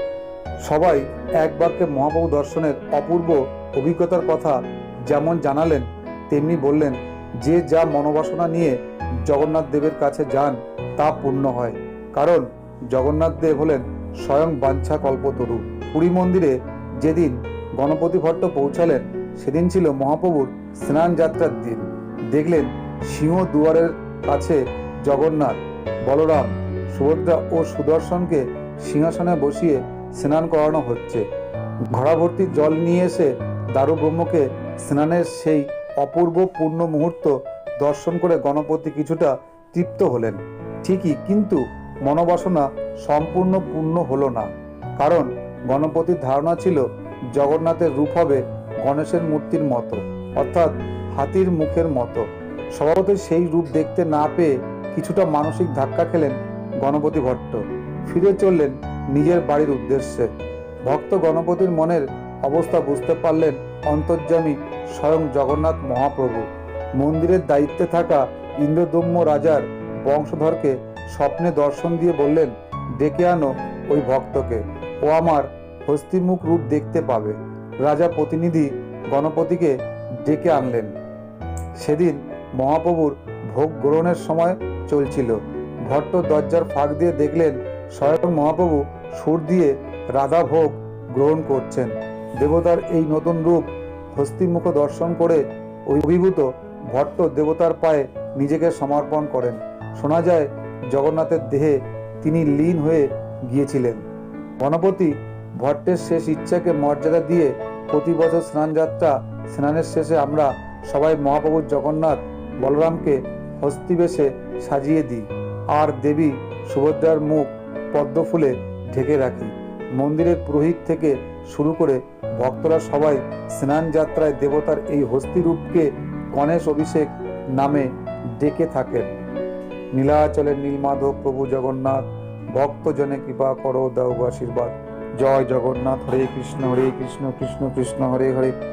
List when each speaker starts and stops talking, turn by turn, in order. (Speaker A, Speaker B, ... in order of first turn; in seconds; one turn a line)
Speaker A: 0.6-31.2
Speaker A: 31.9-60.3
Speaker A: 60.8-80.9
Speaker A: 81.8-104.0
Speaker A: 104.6-129.1
Speaker A: 129.9-138.5